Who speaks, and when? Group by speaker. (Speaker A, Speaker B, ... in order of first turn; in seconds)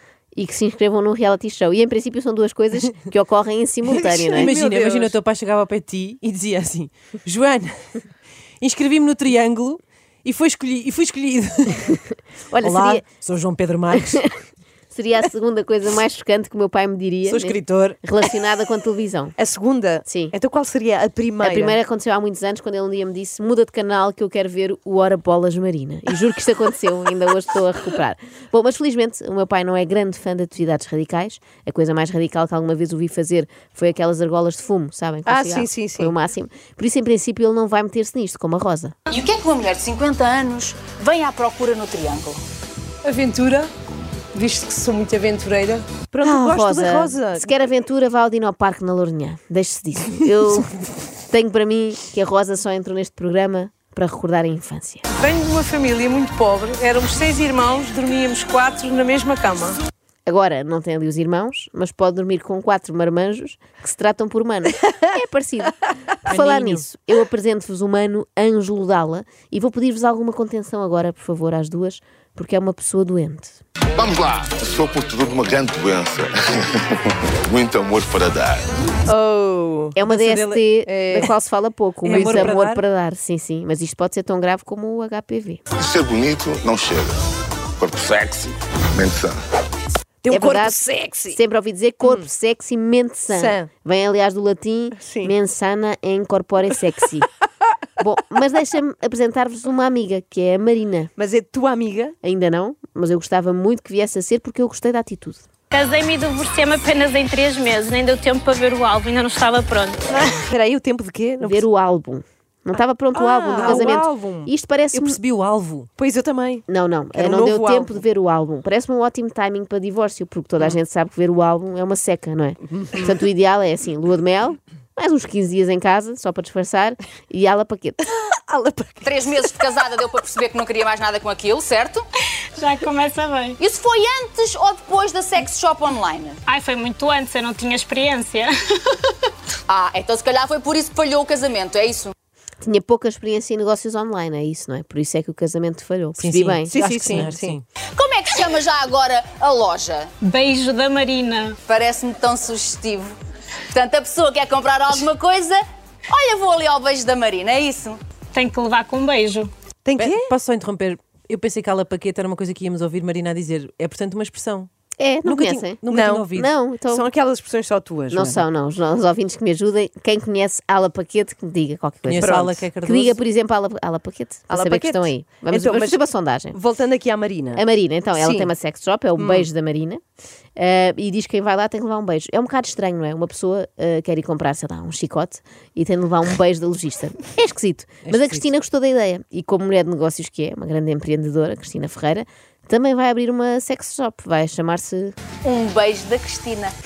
Speaker A: 0.3-4.5, 12.5-13.0, 14.9-19.4, 20.1-20.3, 21.4-39.0, 46.2-50.7, 51.3-55.0, 60.3-73.6, 80.0-85.6, 90.3-97.3, 98.0-101.1, 102.2-105.4, 111.4-115.2, 116.7-128.0, 142.6-147.5, 165.0-167.1, 168.1-176.6, 177.6-180.0, 180.6-195.1
Speaker B: 3.9-5.2, 17.3-18.0, 19.4-21.8, 35.3-36.1, 43.0-43.7, 44.4-47.5, 79.1-80.0, 80.8-81.3, 90.2-91.4, 93.3-93.7, 95.0-95.3, 101.2-102.2, 110.1-111.6, 113.1-114.5, 116.0-118.0, 128.1-129.6, 146.7-147.6, 159.8-160.3, 165.3-166.3, 166.9-168.4, 172.2-172.7, 174.5-177.6, 178.2-178.5, 179.2-179.5
Speaker C: 4.4-8.0, 8.6-11.9, 12.6-14.2, 66.3-66.8, 80.0-80.7, 82.0-82.8, 114.9-115.9, 146.2-147.6, 160.0-164.7, 165.5-166.5, 172.1-173.2
Speaker D: 39.1-42.4, 129.1-132.1, 133.6-136.4, 139.7-142.1, 148.0-150.1, 151.7-153.2, 153.7-158.0, 195.4-196.7
Speaker E: 55.1-59.8
Speaker F: 74.0-76.8, 77.4-78.7, 85.8-87.2, 87.8-89.4
Speaker G: 105.7-110.0, 132.6-133.6, 136.4-138.5, 150.2-151.6, 158.3-159.5